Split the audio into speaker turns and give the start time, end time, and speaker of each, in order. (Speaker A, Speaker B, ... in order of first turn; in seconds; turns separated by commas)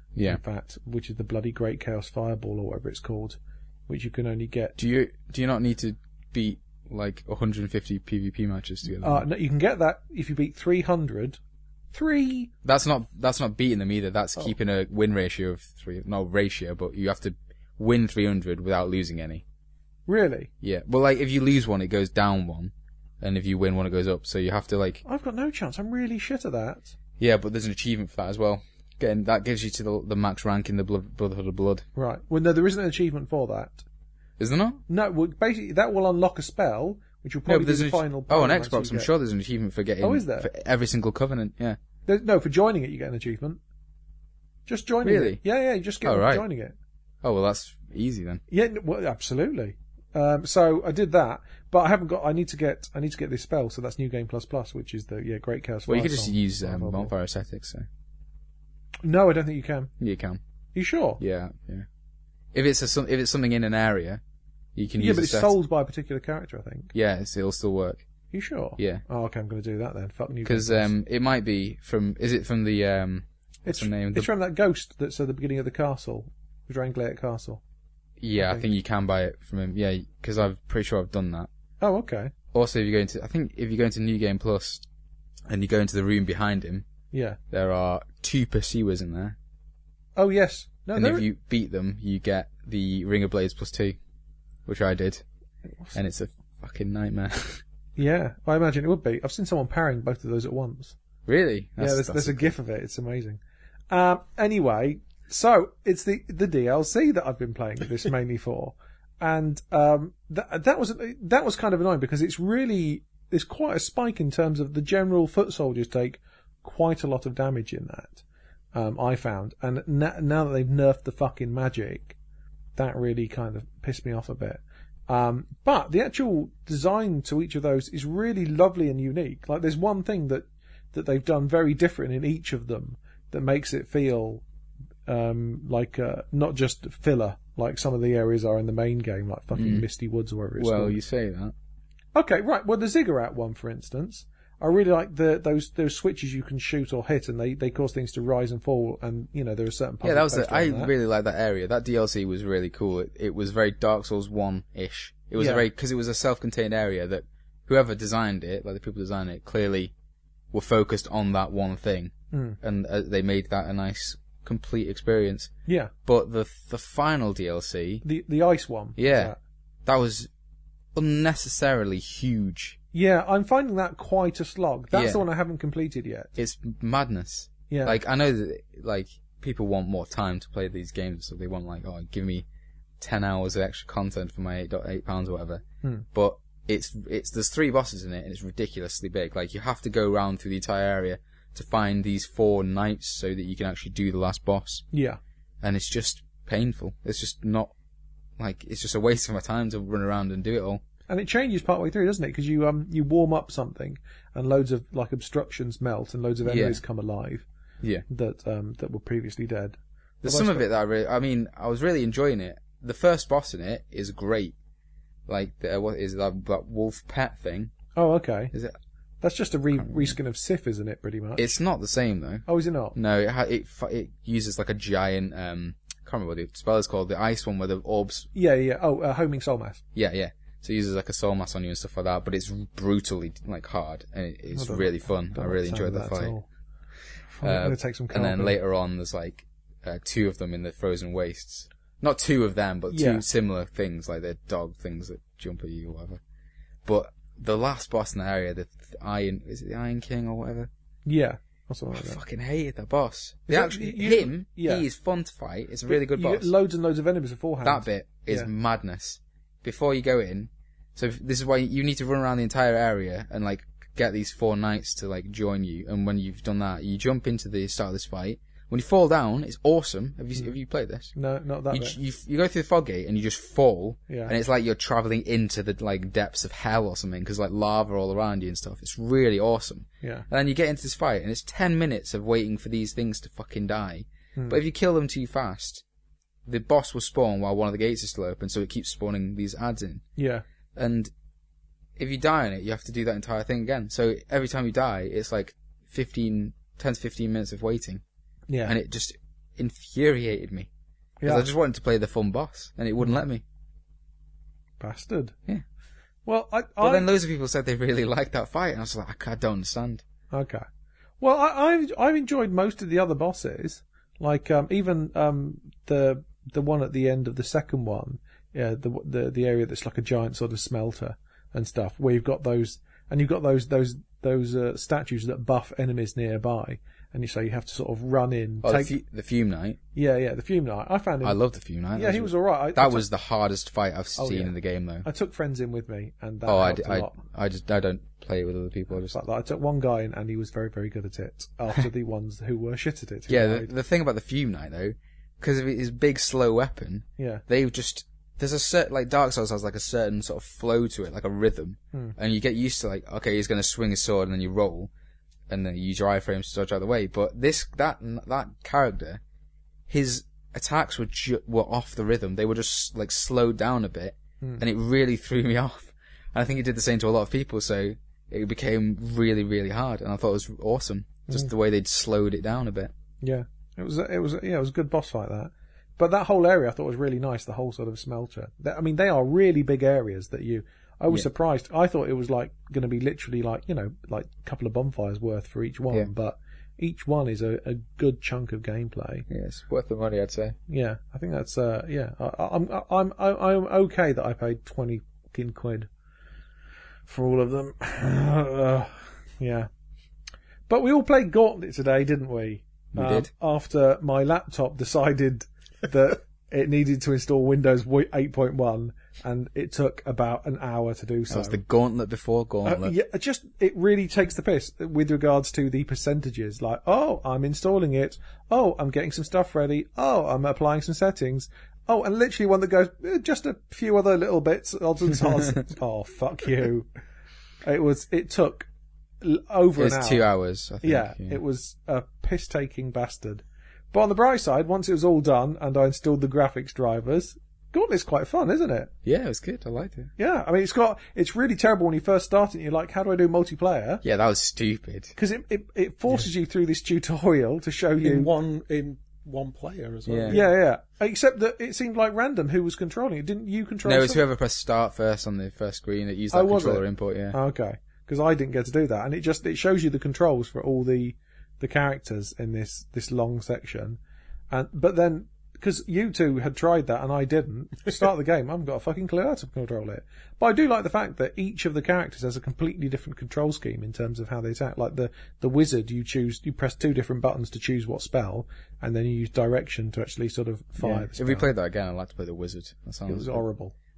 Speaker A: 0.1-0.4, Speaker B: 0.2-4.8, Speaker A: 4.8-9.2, Speaker B: 8.9-11.4, Speaker B: 11.9-12.5, Speaker A: 12.6-19.4, Speaker B: 20.1-20.5, Speaker A: 20.6-25.0, Speaker B: 25.1-26.9, Speaker A: 27.2-31.9, Speaker B: 32.0-33.8, Speaker A: 34.4-34.8, Speaker B: 34.9-39.1, Speaker A: 37.5-41.8, Speaker B: 40.0-40.5, Speaker B: 42.1-43.6, Speaker B: 44.7-46.8, Speaker A: 45.0-45.4, Speaker A: 46.0-46.5, Speaker A: 47.2-48.4, Speaker B: 48.5-57.1, Speaker A: 55.9-57.9, Speaker B: 59.0-59.9, Speaker A: 60.0-60.4, Speaker B: 60.8-61.2, Speaker A: 61.2-61.9, Speaker A: 62.5-64.2, Speaker A: 64.8-65.6, Speaker B: 65.0-66.9, Speaker A: 66.9-68.0, Speaker B: 68.3-70.9, Speaker A: 68.8-69.0, Speaker A: 70.5-74.3, Speaker B: 73.7-77.6, Speaker A: 78.2-81.5, Speaker B: 78.4-78.7, Speaker B: 81.8-82.3, Speaker A: 82.5-84.8, Speaker A: 85.5-86.8, Speaker B: 87.1-87.4, Speaker A: 87.5-89.4, Speaker B: 90.2-91.2, Speaker A: 91.0-94.0, Speaker A: 94.7-95.2, Speaker A: 95.9-97.6, Speaker B: 98.0-101.0, Speaker A: 101.3-102.5, Speaker B: 101.8-103.4, Speaker B: 103.9-118.2, Speaker B: 118.7-122.2, Speaker B: 122.8-134.4, Speaker B: 135.1-141.0, Speaker A: 139.5-139.9, Speaker A: 140.6-141.5, Speaker B: 142.2-150.9, Speaker A: 150.0-159.9, Speaker B: 155.4-155.7, Speaker A: 160.5-165.5, Speaker B: 162.3-162.6, Speaker B: 165.7-165.9, Speaker A: 166.1-168.1, Speaker B: 168.0-169.4, Speaker A: 169.0-169.3, Speaker A: 169.8-170.3, Speaker A: 170.9-172.8, Speaker B: 172.9-176.3, Speaker A: 174.9-175.2, Speaker A: 176.4-182.4, Speaker B: 177.7-178.0, Speaker A: 183.0-185.6, Speaker A: 186.1-194.9, Speaker B: 194.9-195.2, Speaker A: 195.6-197.7, Speaker A: 198.4-200.8, Speaker B: 201.1-207.5, Speaker A: 206.4-206.8, Speaker B: 208.1-210.7, Speaker A: 210.2-214.5, Speaker A: 215.3-217.7, Speaker B: 218.0-218.5, Speaker B: 219.2-221.6, Speaker A: 219.8-220.2, Speaker A: 221.4-228.3, Speaker B: 222.5-222.9, Speaker B: 228.3-229.8, Speaker A: 229.9-236.3, Speaker B: 234.5-236.5, Speaker B: 237.3-238.6, Speaker A: 237.4-246.2, Speaker B: 242.9-243.2, Speaker A: 246.9-250.7, Speaker B: 251.1-252.2, Speaker A: 251.9-256.5, Speaker B: 253.5-254.8, Speaker B: 255.9-258.5, Speaker A: 257.6-271.1, Speaker B: 271.1-272.0, Speaker A: 271.7-285.8, Speaker B: 274.1-274.3, Speaker A: 286.5-290.0, Speaker B: 290.2-290.4, Speaker A: 290.8-291.1, Speaker A: 292.0-298.0, Speaker B: 298.5-298.8, Speaker A: 298.7-300.7, Speaker B: 301.2-301.5, Speaker A: 301.2-303.4, Speaker B: 304.8-305.4, Speaker B: 306.3-307.1, Speaker A: 306.8-310.0, Speaker B: 310.3-310.6, Speaker B: 311.2-328.9, Speaker A: 328.6-329.8, Speaker B: 329.9-331.4, Speaker A: 331.2-335.1, Speaker B: 331.9-333.1, Speaker B: 334.2-334.5, Speaker B: 335.0-337.2, Speaker A: 336.5-339.2, Speaker B: 338.9-343.7, Speaker A: 343.3-354.9, Speaker B: 347.2-347.4, Speaker A: 355.5-359.2, Speaker A: 359.9-372.9, Speaker B: 373.2-389.3, Speaker A: 389.3-390.6, Speaker B: 390.7-395.9, Speaker B: 397.1-399.7, Speaker B: 400.7-411.6, Speaker A: 402.9-403.3, Speaker A: 411.3-412.9, Speaker B: 412.6-426.9, Speaker B: 427.6-428.7, Speaker B: 429.2-430.2, Speaker A: 429.8-431.4, Speaker B: 430.8-438.9, Speaker A: 439.1-440.1, Speaker B: 440.2-444.0, Speaker A: 444.0-445.2, Speaker B: 445.2-448.3, Speaker C: 448.0-450.5, Speaker A: 450.1-450.4, Speaker B: 450.3-454.2, Speaker A: 453.9-457.4, Speaker B: 456.3-464.0, Speaker B: 464.5-481.5, Speaker A: 480.8-483.4, Speaker B: 483.1-483.7